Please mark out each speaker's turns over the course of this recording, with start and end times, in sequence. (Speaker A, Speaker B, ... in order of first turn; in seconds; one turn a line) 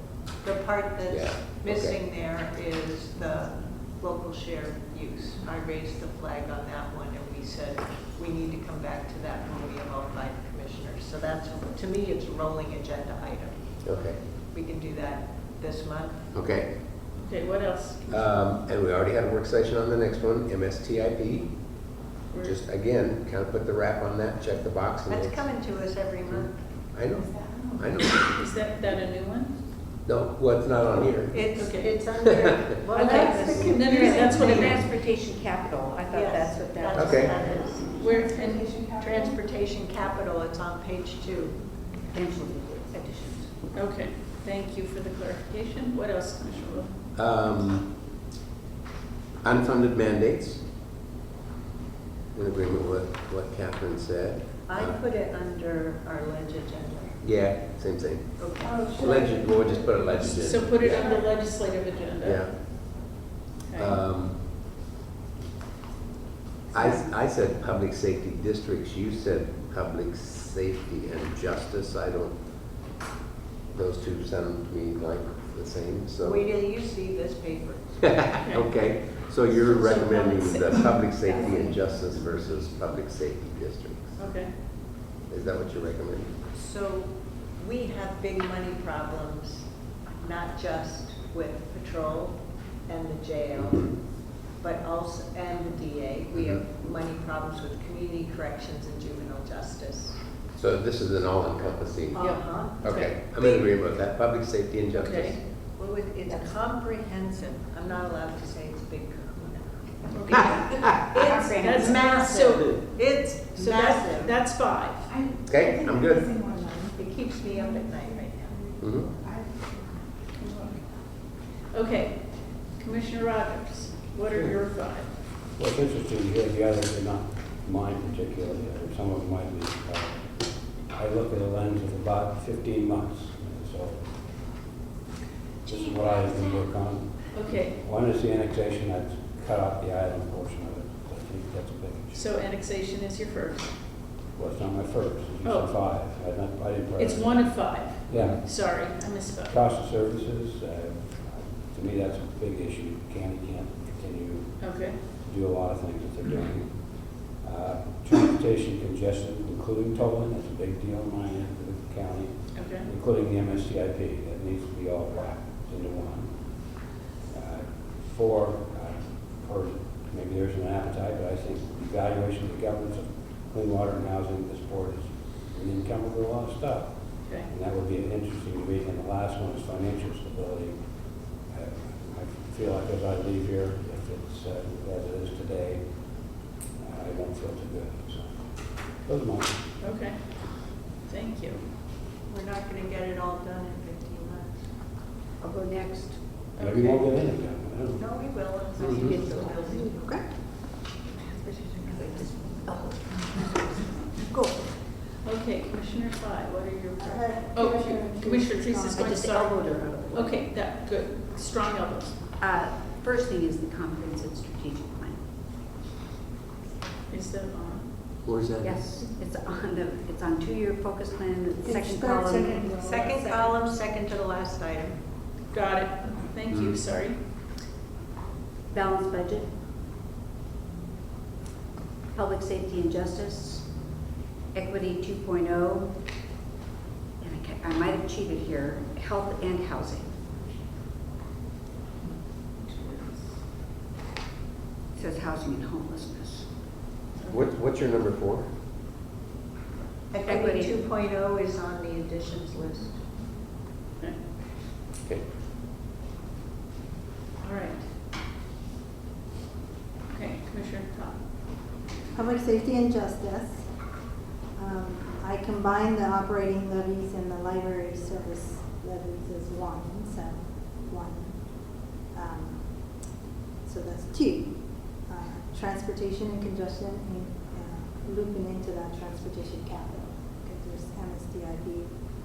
Speaker A: 0.3-13.6
Speaker B: 1.1-2.0
Speaker B: 13.8-14.2
Speaker A: 14.5-16.3
Speaker B: 16.3-16.7
Speaker C: 17.1-18.1
Speaker B: 18.1-21.6
Speaker B: 22.3-25.4
Speaker A: 25.1-26.6
Speaker B: 26.9-28.4
Speaker C: 28.3-29.5
Speaker B: 30.0-31.4
Speaker A: 31.3-34.5
Speaker C: 31.5-31.9
Speaker D: 32.9-37.8
Speaker C: 33.7-34.8
Speaker B: 34.3-34.8
Speaker A: 36.1-38.1
Speaker B: 37.0-37.4
Speaker C: 38.0-38.9
Speaker A: 38.8-41.6
Speaker D: 42.1-43.6
Speaker C: 43.7-46.9
Speaker B: 47.1-47.9
Speaker B: 49.4-50.6
Speaker B: 52.3-55.0
Speaker A: 54.6-57.2
Speaker B: 57.2-58.4
Speaker A: 58.4-59.0
Speaker B: 58.9-61.1
Speaker C: 60.2-62.5
Speaker B: 62.2-63.1
Speaker C: 63.7-64.0
Speaker B: 63.7-64.4
Speaker D: 66.7-67.0
Speaker B: 66.7-72.3
Speaker B: 73.7-76.5
Speaker A: 76.2-77.8
Speaker B: 78.0-84.2
Speaker C: 78.4-78.7
Speaker A: 79.7-80.5
Speaker C: 84.2-84.5
Speaker B: 85.3-86.3
Speaker A: 86.5-100.2
Speaker B: 93.5-93.9
Speaker B: 96.3-96.6
Speaker B: 100.5-102.2
Speaker A: 102.1-103.7
Speaker C: 102.2-103.1
Speaker B: 102.8-105.4
Speaker C: 105.0-105.4
Speaker A: 105.6-114.3
Speaker C: 110.1-110.9
Speaker D: 110.9-112.2
Speaker C: 111.6-113.0
Speaker C: 113.6-115.1
Speaker B: 115.5-116.3
Speaker E: 116.4-116.8
Speaker A: 116.8-118.5
Speaker B: 118.8-119.1
Speaker C: 121.7-125.1
Speaker F: 125.5-134.5
Speaker F: 135.6-142.3
Speaker C: 137.3-137.8
Speaker C: 142.1-143.8
Speaker F: 144.3-148.8
Speaker C: 145.4-145.8
Speaker C: 147.0-149.6
Speaker F: 149.5-189.6
Speaker C: 154.6-155.0
Speaker C: 162.5-162.9
Speaker C: 189.8-191.6
Speaker A: 192.3-194.6
Speaker D: 195.4-196.2
Speaker C: 196.6-197.0
Speaker F: 196.6-199.1
Speaker A: 197.9-200.1
Speaker D: 198.8-200.3
Speaker B: 198.8-199.1
Speaker D: 201.3-204.7
Speaker C: 205.2-212.2
Speaker E: 207.0-209.1
Speaker D: 208.9-210.5
Speaker D: 212.4-215.2
Speaker C: 217.1-217.9
Speaker B: 218.2-219.0
Speaker D: 218.6-222.7
Speaker E: 221.6-223.5
Speaker A: 222.7-224.9
Speaker C: 225.5-227.2
Speaker B: 226.5-226.8
Speaker D: 228.7-229.5
Speaker D: 232.1-233.7
Speaker D: 234.5-235.9
Speaker D: 237.2-240.1
Speaker C: 242.6-243.4
Speaker D: 244.9-246.5
Speaker C: 247.2-247.4
Speaker B: 247.3-248.4
Speaker A: 250.1-253.0
Speaker D: 250.2-250.8
Speaker C: 257.4-257.9
Speaker C: 260.1-261.2
Speaker E: 262.1-263.6
Speaker E: 264.5-273.0
Speaker E: 273.6-281.9